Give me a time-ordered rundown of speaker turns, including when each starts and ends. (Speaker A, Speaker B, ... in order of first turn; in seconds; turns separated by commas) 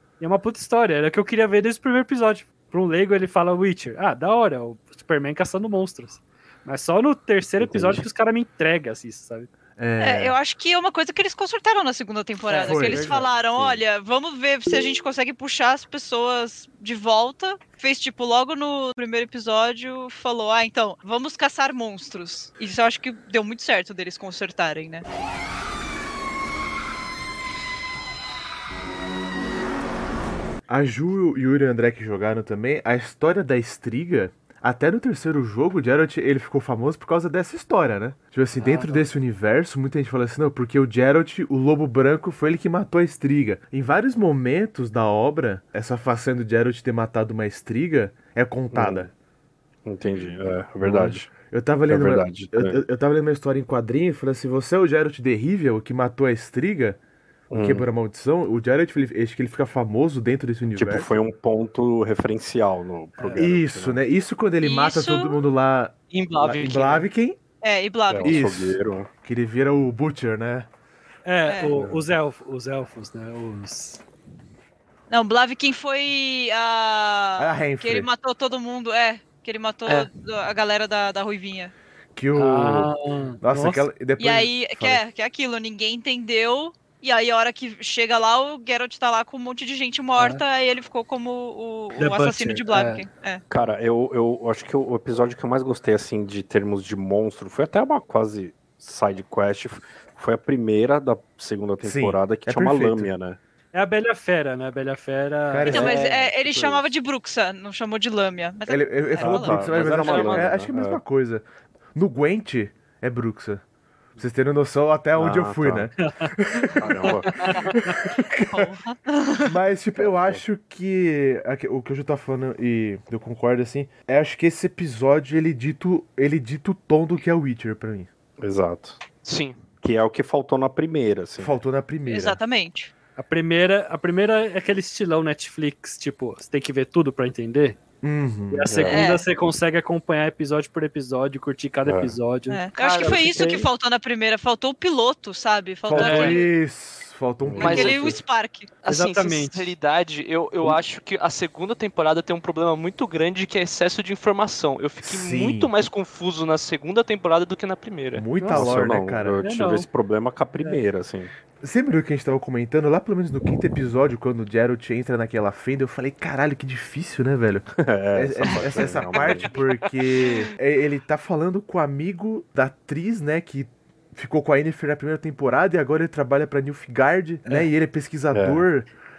Speaker A: 0.2-9.5, Speaker B: 7.6-8.0, Speaker C: 9.8-10.3, Speaker D: 10.0-25.0, Speaker A: 12.5-13.3, Speaker C: 12.6-13.3, Speaker B: 13.6-13.8, Speaker C: 30.7-49.1, Speaker A: 38.6-39.0, Speaker B: 48.7-49.1, Speaker B: 49.8-51.3, Speaker E: 50.0-50.4, Speaker C: 50.8-57.0, Speaker B: 51.9-52.8, Speaker B: 57.5-57.9, Speaker C: 57.5-61.2, Speaker B: 60.7-64.0, Speaker A: 63.2-63.5, Speaker C: 63.4-67.4, Speaker D: 64.6-65.4, Speaker E: 66.1-67.1, Speaker D: 67.6-68.4, Speaker B: 68.1-69.1, Speaker C: 68.2-70.7, Speaker A: 71.2-74.0, Speaker D: 71.5-71.7, Speaker B: 71.7-72.0, Speaker D: 75.1-81.7, Speaker C: 77.4-78.1, Speaker C: 82.2-85.0, Speaker A: 82.3-83.9, Speaker D: 84.2-93.4, Speaker A: 90.2-90.4, Speaker A: 92.0-93.0, Speaker B: 93.5-103.4, Speaker C: 101.8-103.1, Speaker A: 103.7-106.8, Speaker C: 105.5-106.0, Speaker D: 105.6-110.4, Speaker C: 108.7-113.6, Speaker B: 109.2-111.0, Speaker E: 109.7-110.5, Speaker C: 114.2-117.2, Speaker B: 115.2-115.9, Speaker A: 116.0-118.0, Speaker B: 116.8-117.4, Speaker C: 117.7-118.7, Speaker D: 118.5-119.5, Speaker C: 119.4-128.1, Speaker B: 120.0-120.4, Speaker B: 128.4-129.0, Speaker E: 129.2-129.6, Speaker B: 129.8-131.5, Speaker C: 131.4-132.4, Speaker D: 132.1-132.9, Speaker A: 133.2-137.8, Speaker C: 138.0-138.8, Speaker A: 138.5-142.6, Speaker B: 138.7-139.0, Speaker D: 138.9-139.2, Speaker B: 141.8-142.2, Speaker D: 142.5-146.5, Speaker E: 142.8-143.7, Speaker B: 143.0-143.7, Speaker A: 145.9-146.4, Speaker B: 145.9-146.2, Speaker C: 145.9-148.2, Speaker B: 147.4-148.2, Speaker D: 147.6-148.7, Speaker E: 147.6-148.2, Speaker E: 148.8-158.3, Speaker A: 148.9-149.7, Speaker C: 155.0-155.7, Speaker C: 158.1-159.4, Speaker A: 158.4-158.8, Speaker B: 158.5-161.3, Speaker A: 159.4-159.9, Speaker C: 161.6-178.9, Speaker B: 167.7-169.5, Speaker E: 169.1-169.8, Speaker B: 178.3-178.7